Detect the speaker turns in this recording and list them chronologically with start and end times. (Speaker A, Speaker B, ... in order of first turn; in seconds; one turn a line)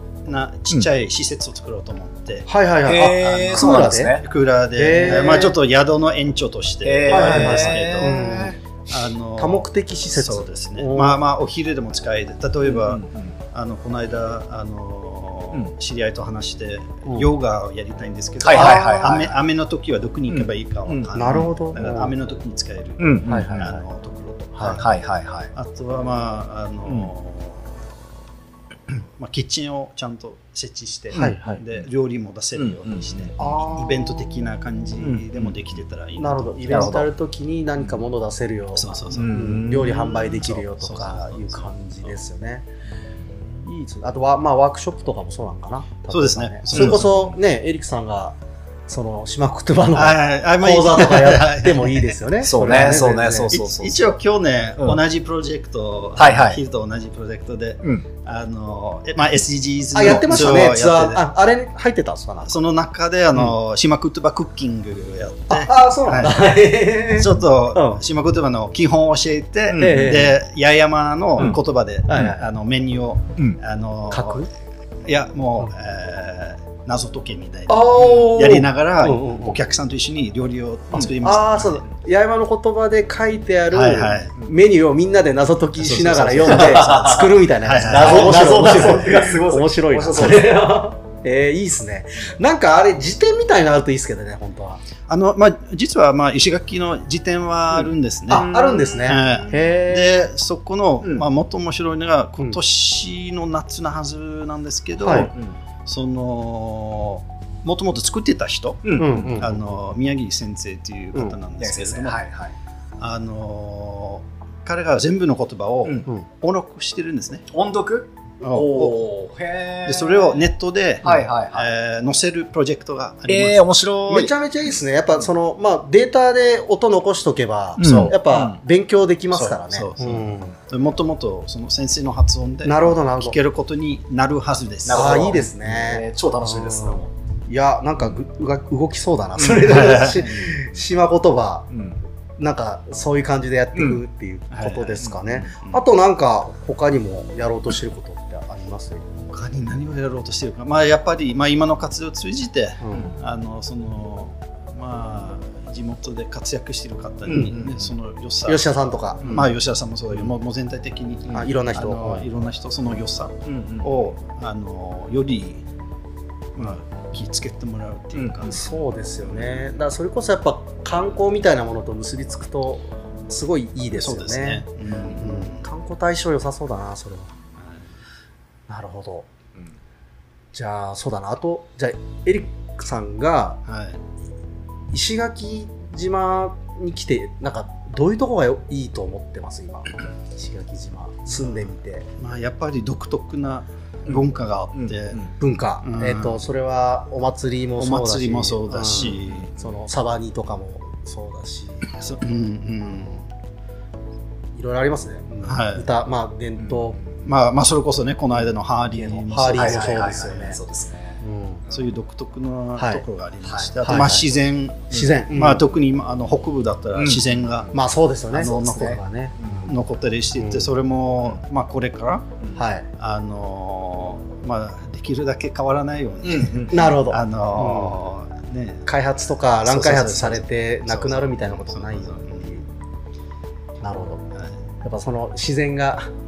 Speaker A: 0.2-2.5
Speaker B: 2.5-4.2
Speaker C: 2.8-4.3
Speaker A: 3.5-24.9
Speaker B: 4.8-5.5
Speaker C: 6.8-8.6
Speaker B: 7.1-11.2
Speaker C: 12.7-13.3
Speaker C: 18.4-19.4
Speaker B: 18.5-19.2
Speaker C: 20.3-21.5
Speaker B: 21.1-22.1
Speaker C: 23.0-23.7
Speaker B: 23.3-23.8
Speaker C: 24.8-25.5
Speaker A: 25.6-27.8
Speaker A: 28.9-37.1
Speaker B: 31.1-31.6
Speaker C: 32.6-33.3
Speaker B: 33.4-34.3
Speaker C: 35.0-35.6
Speaker B: 36.2-42.7
Speaker C: 36.7-37.0
Speaker A: 38.8-42.1
Speaker C: 39.1-40.2
Speaker B: 43.6-48.4
Speaker A: 46.1-47.1
Speaker C: 46.7-47.3
Speaker B: 48.9-53.6
Speaker A: 49.9-52.1
Speaker C: 52.5-54.0
Speaker A: 53.5-61.2
Speaker C: 56.2-56.6
Speaker B: 60.0-62.6
Speaker A: 62.5-66.4
Speaker B: 65.5-68.0
Speaker A: 67.1-74.5
Speaker C: 69.7-70.1
Speaker B: 69.8-70.3
Speaker B: 71.4-72.5
Speaker B: 74.1-74.5
Speaker A: 75.0-81.8
Speaker B: 77.7-79.6
Speaker B: 81.0-94.8
Speaker A: 83.7-84.3
Speaker A: 85.8-86.9
Speaker C: 86.5-90.5
Speaker A: 87.6-88.8
Speaker A: 95.1-105.3
Speaker B: 98.3-100.2
Speaker B: 105.0-105.3
Speaker C: 105.1-105.5
Speaker A: 105.9-112.2
Speaker C: 108.8-109.6
Speaker B: 109.0-109.5
Speaker C: 111.6-112.5
Speaker A: 113.0-117.5
Speaker C: 117.5-120.4
Speaker A: 118.4-119.0
Speaker A: 119.8-123.6
Speaker C: 121.0-121.7
Speaker C: 123.3-124.3
Speaker B: 124.1-130.6
Speaker A: 127.8-128.1
Speaker C: 127.8-128.6
Speaker A: 129.3-135.4
Speaker B: 132.7-133.4
Speaker C: 134.8-137.1
Speaker B: 134.9-141.7
Speaker A: 139.4-140.5
Speaker C: 141.7-142.0
Speaker B: 142.4-149.1
Speaker A: 144.5-145.8
Speaker A: 149.3-158.7
Speaker B: 152.8-153.1
Speaker C: 157.3-157.9
Speaker B: 158.5-159.5
Speaker A: 159.2-165.6
Speaker B: 161.3-162.2
Speaker C: 163.5-164.1
Speaker A: 166.6-168.8
Speaker C: 168.2-168.6
Speaker B: 168.4-174.6
Speaker A: 174.0-175.7
Speaker B: 175.2-177.3
Speaker A: 177.6-177.8
Speaker B: 178.7-179.3
Speaker B: 180.5-183.6
Speaker A: 183.7-184.0
Speaker B: 184.9-192.1
Speaker A: 192.2-195.3
Speaker C: 194.8-195.3
Speaker B: 195.4-201.9
Speaker A: 195.8-196.4
Speaker A: 197.8-199.5
Speaker C: 199.2-199.5
Speaker A: 202.0-203.3
Speaker B: 204.6-207.0
Speaker A: 205.5-205.8
Speaker A: 207.2-210.4
Speaker B: 209.0-210.6
Speaker C: 209.6-211.2
Speaker B: 211.2-211.6
Speaker A: 211.7-217.7
Speaker B: 212.8-213.0
Speaker C: 213.4-213.8
Speaker B: 213.8-214.3
Speaker B: 214.9-215.6
Speaker C: 216.9-217.7
Speaker B: 217.7-219.8
Speaker A: 218.3-219.0
Speaker C: 219.4-219.7
Speaker A: 219.7-222.3
Speaker B: 220.4-220.7
Speaker B: 222.6-222.9
Speaker A: 223.0-228.8
Speaker C: 226.3-226.8
Speaker B: 226.7-228.0
Speaker B: 228.9-232.6
Speaker A: 229.6-232.5
Speaker B: 233.8-234.2
Speaker B: 234.8-236.1